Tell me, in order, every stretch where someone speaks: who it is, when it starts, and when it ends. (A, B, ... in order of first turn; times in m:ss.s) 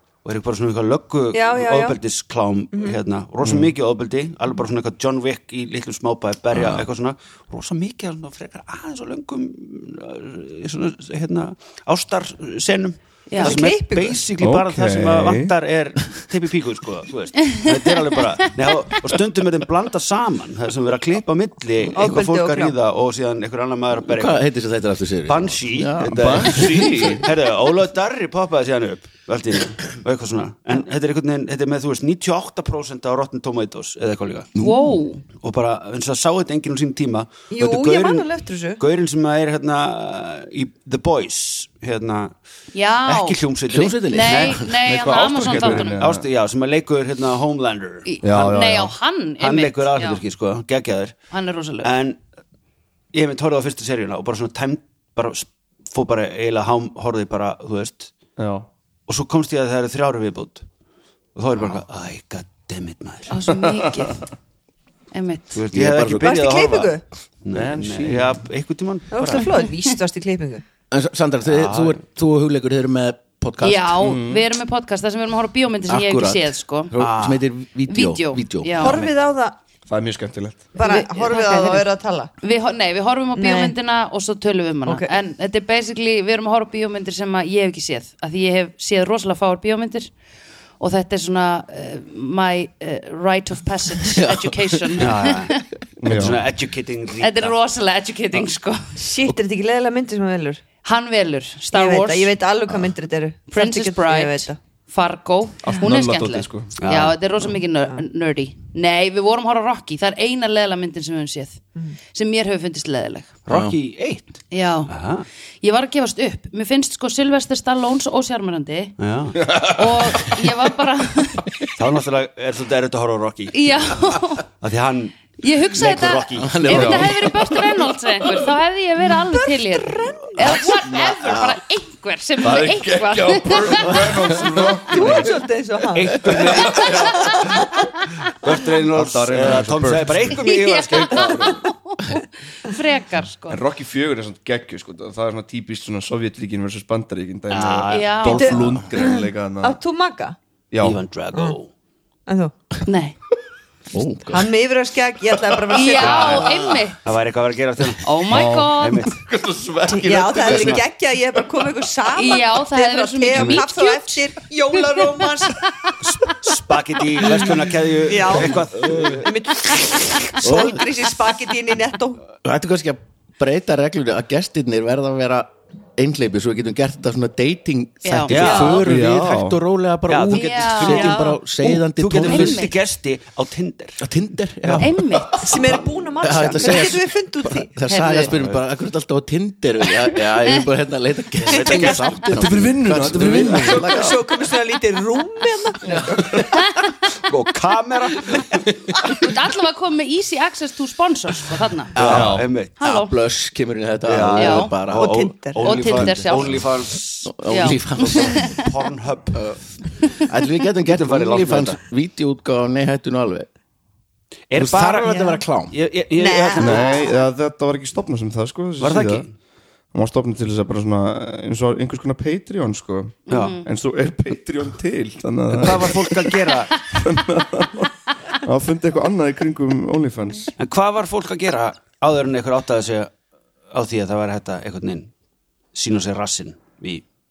0:00.2-0:24.5 A
0:01.3-0:02.0 B
0:02.7-0:03.0 B
0:03.4-0:03.7 C
0:13.3-0:13.6 D
0:13.4-0:14.2 B
0:14.4-0:15.5 C
0:21.9-0:22.2 E
0:21.9-0:22.7 B
0:24.0-0:27.2 E
0:25.3-0:34.5 A
0:26.1-0:27.2 C
0:34.5-0:35.0 E
0:34.6-0:35.2 D
0:35.4-0:38.3 A
0:37.5-0:38.8 B
0:38.8-0:42.4 A
0:42.7-0:43.4 D
0:43.0-0:44.6 A
0:43.7-0:44.8 E
0:44.1-0:46.0 D
0:44.8-0:46.3 C
0:45.4-0:48.1 A
0:48.0-0:50.2 D
0:48.2-0:48.9 C
0:49.4-0:51.1 A
0:51.3-0:51.9 D
0:51.8-0:52.2 A
0:53.1-0:58.1 A
0:58.4-0:58.7 C
0:59.1-1:00.6 A
1:01.3-1:03.3 A
1:03.3-1:04.2 D
1:03.5-1:04.2 C
1:05.1-1:05.6 D
1:05.5-1:09.5 A
1:05.7-1:06.3 E
1:06.2-1:07.0 B
1:07.5-1:08.3 C
1:09.1-1:10.6 B
1:10.9-1:14.0 E
1:11.4-1:12.0 A
1:13.6-1:16.9 D
1:14.0-1:14.4 C
1:15.9-1:19.1 E
1:17.0-1:17.4 A
1:17.9-1:19.0 D
1:18.8-1:19.6 B
1:19.9-1:20.7 C
1:20.7-1:22.3 B
1:20.8-1:21.9 D
1:22.4-1:30.1 D
1:23.4-1:23.7 B
1:30.8-1:35.7 D
1:34.1-1:35.1 E
1:35.0-1:37.5 A
1:36.0-1:36.4 C
1:37.2-1:38.9 D
1:39.0-1:40.6 B
1:40.8-1:42.3 D
1:41.7-1:44.6 B
1:43.5-1:53.3 D
1:45.6-1:46.8 C
1:46.8-1:47.1 A
1:53.5-1:54.3 A
1:53.5-1:53.7 E
1:54.5-1:54.9 D
1:54.9-1:55.2 A
1:55.6-2:01.5 D
1:59.0-1:59.4 A
2:01.7-2:03.7 A
2:03.5-2:04.4 D
2:04.6-2:06.8 A
2:05.4-2:13.9 D
2:06.4-2:07.6 E
2:06.7-2:07.1 C
2:09.2-2:10.6 B
2:10.4-2:11.6 E
2:12.4-2:15.3 C
2:14.1-2:14.6 E
2:14.2-2:15.4 A
2:14.9-2:17.6 B
2:15.9-2:17.7 A
2:16.2-2:17.7 C
2:18.4-2:21.6 A
2:18.9-2:20.4 C
2:20.3-2:23.6 D
2:23.5-2:29.8 C
2:27.5-2:28.5 A
2:27.9-2:28.6 D
2:28.4-2:30.4 B
2:30.7-2:31.0 C
2:30.8-2:31.7 A
2:32.3-2:32.5 B
2:32.8-2:33.2 D
2:33.9-2:34.5 E
2:34.3-2:36.5 B
2:35.7-2:37.0 D
2:36.0-2:36.5 C
2:36.0-2:39.2 A
2:38.0-2:39.1 D
2:38.3-2:40.8 C
2:39.9-2:45.7 B
2:42.1-2:44.3 D
2:43.3-2:43.6 A
2:46.0-2:49.3 A
2:48.0-2:52.2 B
2:50.4-2:50.8 E
2:52.4-3:02.7 E
2:58.0-2:58.7 D
2:58.3-2:58.9 A
2:58.4-2:58.8 B
2:58.8-2:59.6 C
3:00.1-3:04.0 A
3:00.3-3:01.3 D
3:00.9-3:01.4 B
3:02.1-3:02.7 D
3:04.0-3:14.1 E
3:04.8-3:05.6 D
3:05.4-3:07.7 B
3:07.9-3:08.3 D
3:08.2-3:08.6 A
3:11.4-3:12.3 A
3:11.5-3:12.0 B
3:12.3-3:14.2 C
3:13.0-3:14.0 A
3:13.6-3:16.5 B
3:15.9-3:16.3 E
3:17.2-3:18.6 A
3:19.0-3:22.0 D
3:21.9-3:26.4 E
3:22.0-3:22.7 A
3:22.0-3:22.5 C
3:22.8-3:23.1 D
3:24.0-3:27.3 A
3:24.4-3:24.7 D
3:24.9-3:25.6 B
3:25.6-3:26.6 D
3:27.2-3:28.5 E
3:27.4-3:28.6 D
3:28.1-3:29.5 A
3:29.3-3:29.6 E
3:30.2-3:33.5 E
3:30.8-3:31.8 A
3:34.5-3:37.0 A
3:34.6-3:35.7 E
3:36.2-3:37.1 B
3:36.6-3:39.3 C
3:38.8-3:39.3 A
3:39.9-3:47.9 C
3:43.3-3:43.7 D
3:43.3-3:43.6 A
3:45.6-3:46.8 A
3:48.4-3:50.5 C
3:50.6-3:53.1 A
3:53.7-3:55.1 A
3:55.7-3:57.0 A